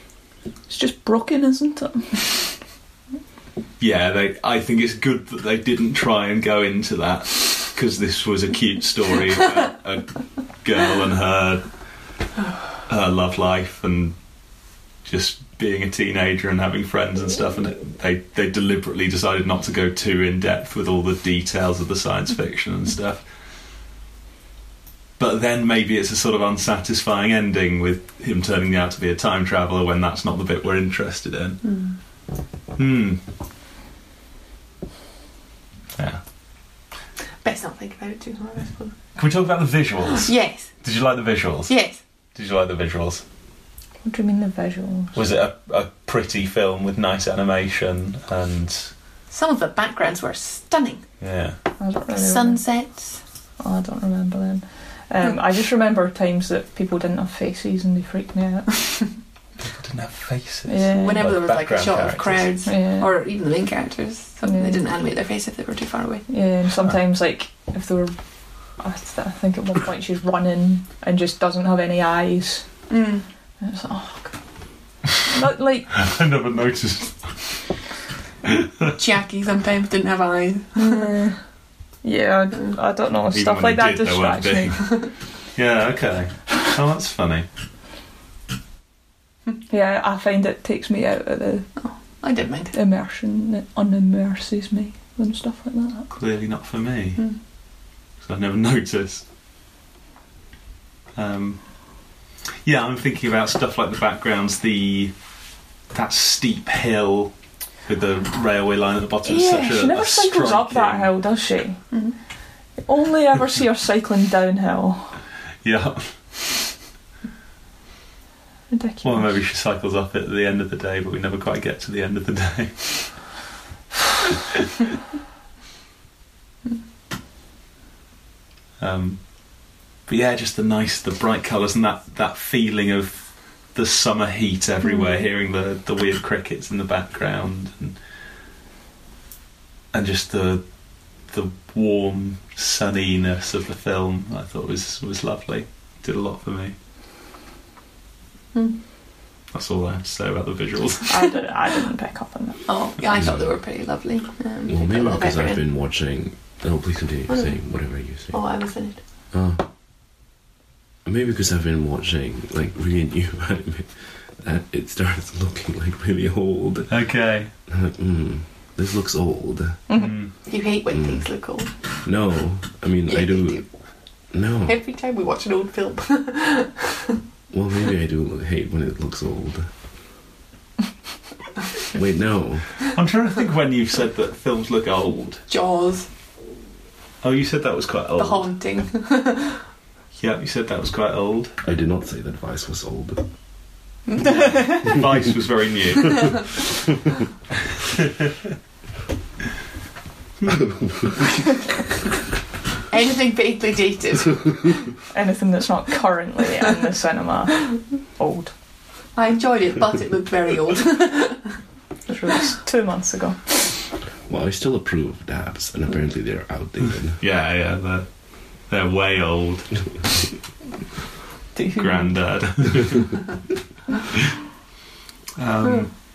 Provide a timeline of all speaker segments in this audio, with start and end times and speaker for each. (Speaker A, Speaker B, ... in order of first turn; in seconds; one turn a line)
Speaker A: 0.7-2.5
Speaker B: 3.8-11.6
Speaker B: 12.9-14.2
Speaker B: 15.1-23.2
Speaker B: 25.2-31.6
Speaker C: 31.6-31.9
Speaker B: 32.8-33.2
Speaker C: 37.4-39.0
Speaker B: 39.2-41.7
Speaker C: 40.2-40.7
Speaker C: 41.7-42.0
Speaker B: 42.4-43.2
Speaker A: 44.0-45.2
Speaker B: 45.1-48.9
Speaker C: 49.3-51.0
Speaker B: 51.2-51.6
Speaker A: 51.8-52.6
Speaker C: 52.1-53.2
Speaker A: 53.6-59.0
Speaker B: 59.6-62.5
Speaker A: 60.7-61.2
Speaker C: 60.9-66.3
Speaker A: 62.7-63.1
Speaker A: 64.4-64.8
Speaker A: 66.3-68.2
Speaker A: 68.8-72.7
Speaker C: 72.9-73.2
Speaker A: 73.6-74.3
Speaker A: 75.2-75.9
Speaker B: 76.0-77.6
Speaker B: 78.5-78.9
Speaker C: 78.9-81.1
Speaker A: 80.8-81.4
Speaker A: 82.0-84.8
Speaker B: 83.3-87.5
Speaker A: 89.7-91.7
Speaker C: 91.8-92.7
Speaker A: 92.7-96.1
Speaker B: 96.1-97.2
Speaker B: 98.2-99.2
Speaker B: 101.2-101.6
Speaker B: 102.6-105.1
Speaker B: 105.9-107.3
Speaker B: 107.9-111.1
Speaker A: 109.2-111.8
Speaker A: 112.9-115.2
Speaker B: 115.6-116.2
Speaker A: 118.7-119.3
Speaker B: 119.0-123.0
Speaker B: 128.8-129.2
Speaker B: 130.1-138.0
Speaker B: 139.9-140.6
Speaker B: 141.3-146.7
Speaker C: 148.5-148.8
Speaker B: 149.5-151.2
Speaker A: 151.1-152.6
Speaker C: 152.7-155.6
Speaker D: 153.2-153.4
Speaker D: 154.7-158.4
Speaker C: 158.3-159.0
Speaker D: 159.3-159.6
Speaker D: 161.1-166.9
Speaker B: 166.9-167.5
Speaker D: 167.7-169.8
Speaker B: 169.9-170.3
Speaker C: 170.4-171.7
Speaker D: 170.9-171.2
Speaker D: 172.0-173.6
Speaker C: 173.1-173.7
Speaker D: 174.3-174.7
Speaker C: 174.7-177.1
Speaker D: 177.5-179.7
Speaker D: 181.8-182.7
Speaker B: 182.9-185.4
Speaker C: 185.5-186.1
Speaker B: 187.2-188.5
Speaker C: 188.2-189.6
Speaker B: 190.2-191.6
Speaker D: 191.6-193.2
Speaker C: 194.1-194.4
Speaker B: 194.2-196.7
Speaker D: 200.5-201.4
Speaker C: 202.9-204.8
Speaker A: 205.1-208.5
Speaker C: 209.1-211.5
Speaker A: 212.1-213.6
Speaker D: 214.3-217.2
Speaker B: 217.2-218.1
Speaker B: 218.7-219.7
Speaker A: 221.6-222.1
Speaker B: 221.8-223.2
Speaker B: 225.4-225.9
Speaker C: 225.6-225.9